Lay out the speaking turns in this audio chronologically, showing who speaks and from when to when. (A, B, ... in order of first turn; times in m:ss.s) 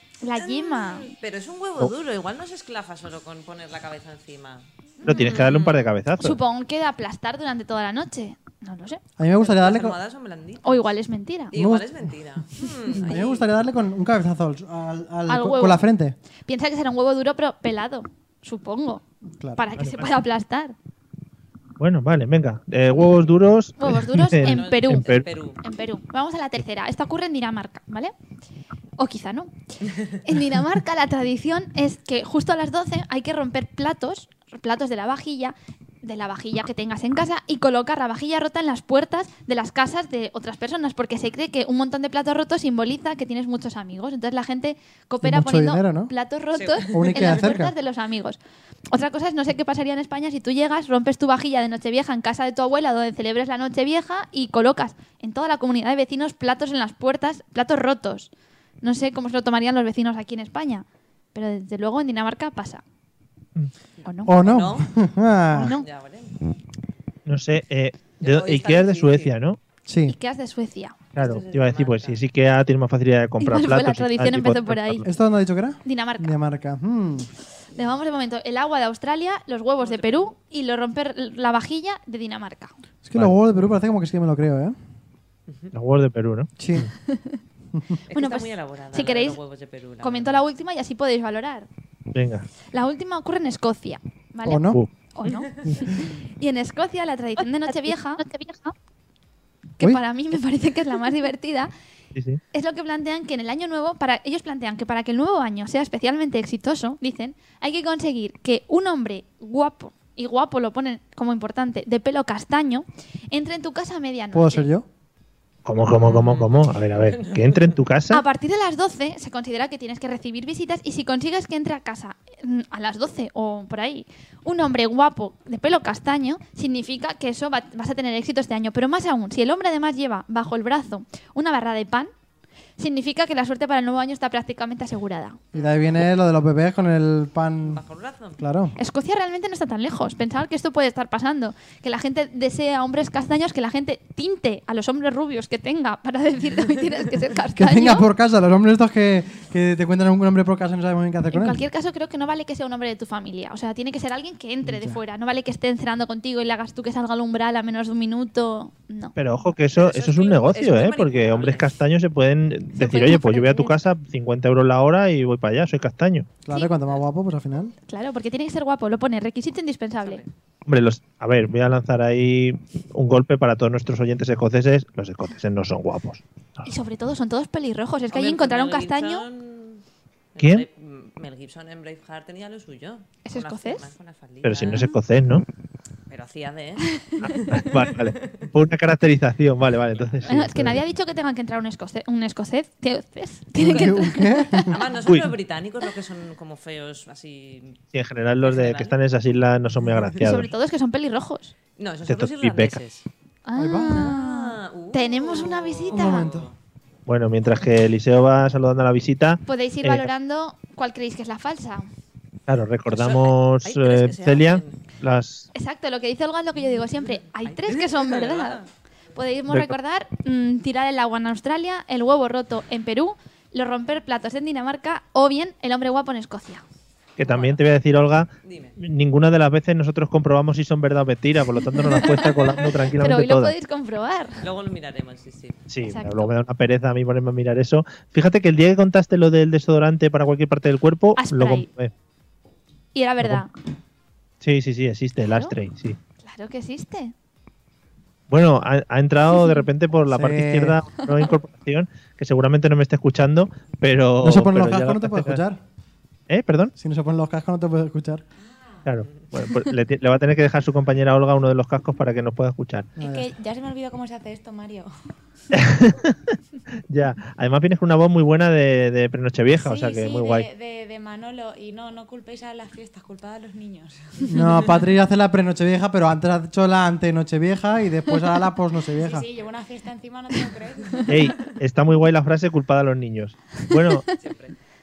0:00.2-0:01.1 A
0:00.4-0:05.9 B
0:05.0-0:05.3 A
0:05.0-0:06.4 C
0:06.2-0:09.0 A
0:09.2-0:10.0 D
0:09.3-0:10.9 B
0:10.6-0:11.5 A
0:11.5-0:13.5 B
0:11.5-0:12.1 D
0:12.9-0:16.2 D
0:15.3-0:15.8 A
0:16.5-0:19.0 A
0:19.3-0:19.6 D
0:19.6-0:20.7 A
0:19.8-0:20.1 C
0:21.8-0:25.3 C
0:23.8-0:28.1 A
0:24.4-0:25.6 B
0:29.0-0:29.5 A
0:30.0-0:48.4 A
0:45.2-0:46.1 D
0:46.5-0:47.5 B
0:46.9-0:47.7 D
0:48.9-0:58.3 A
0:58.8-1:02.8 A
1:04.0-1:04.3 A
1:04.2-1:05.8 D
1:04.3-1:04.9 B
1:05.5-1:05.8 A
1:05.5-1:06.3 B
1:07.2-1:09.6 C
1:08.2-1:09.3 B
1:09.8-1:10.1 D
1:10.0-1:11.0 A
1:11.1-1:15.1 C
1:11.2-1:12.2 B
1:13.4-1:15.0 A
1:15.0-1:17.3 D
1:15.8-1:16.4 A
1:17.7-1:22.7 A
1:19.8-1:20.3 B
1:23.0-1:24.8 D
1:25.7-1:26.9 C
1:26.6-1:26.9 D
1:27.1-1:27.4 A
1:28.1-1:30.4 B
1:28.1-1:29.4 A
1:30.0-1:31.7 A
1:32.1-1:32.5 C
1:32.7-1:38.7 A
1:34.4-1:34.8 D
1:35.2-1:35.6 B
1:39.8-1:41.7 A
1:42.1-1:42.4 C
1:42.5-1:54.7 A
1:54.3-1:54.8 D
1:55.6-1:58.2 C
1:55.9-1:57.8 B
1:58.1-2:12.1 A
2:12.8-2:15.4 A
2:15.5-2:16.0 B
2:15.5-2:17.8 D
2:17.6-2:18.4 B
2:18.4-2:18.7 D
2:18.8-2:28.1 A
2:27.6-2:31.6 D
2:31.3-2:39.1 A
2:34.6-2:35.0 D
2:39.2-2:46.3 C
2:39.7-2:41.7 B
2:42.8-2:43.7 A
2:46.4-2:47.7 D
2:47.9-2:50.2 A
2:50.0-2:50.3 B
2:50.6-2:56.7 C
2:56.6-2:59.2 A
2:58.1-2:59.8 B
3:00.3-3:04.9 B
3:00.4-3:00.6 C
3:03.2-3:03.8 A
3:04.4-3:05.4 C
3:06.1-3:08.5 B
3:07.2-3:10.8 C
3:09.9-3:10.2 B
3:10.2-3:14.7 A
3:13.6-3:14.8 D
3:14.7-3:17.8 B
3:15.1-3:15.3 C
3:17.9-3:20.5 C
3:18.4-3:19.0 B
3:20.2-3:21.5 A
3:21.8-3:23.0 B
3:22.1-3:22.8 C
3:23.4-3:26.3 A
3:23.6-3:24.0 D
3:23.9-3:26.5 B
3:25.9-3:26.5 D
3:27.0-3:30.1 C
3:29.4-3:31.9 A
3:32.5-3:35.5 C
3:32.9-3:34.8 B
3:35.5-3:38.6 A
3:37.4-3:38.7 B
3:39.1-3:46.6 A
3:47.2-3:53.5 C
3:47.2-3:47.6 B
3:48.4-3:48.8 B
3:51.8-3:52.5 A
3:53.0-3:54.4 A
3:54.4-3:55.7 B
3:55.7-4:01.9 C
3:55.8-3:56.3 A
4:01.2-4:01.7 A
4:02.9-4:03.5 A
4:04.4-4:06.0 C
4:05.3-4:05.5 A
4:06.2-4:07.1 A
4:08.3-4:15.4 C
4:10.1-4:10.8 D
4:14.2-4:15.6 D
4:16.3-4:16.7 C
4:16.8-4:18.2 D
4:18.4-4:18.8 E
4:18.8-4:22.9 C
4:23.0-4:23.3 D
4:23.0-4:24.9 E
4:25.5-4:26.4 C
4:26.9-4:30.5 C
4:29.6-4:34.6 E
4:34.3-4:39.3 D
4:39.0-4:41.1 E
4:41.1-4:44.1 C
4:44.2-4:44.5 B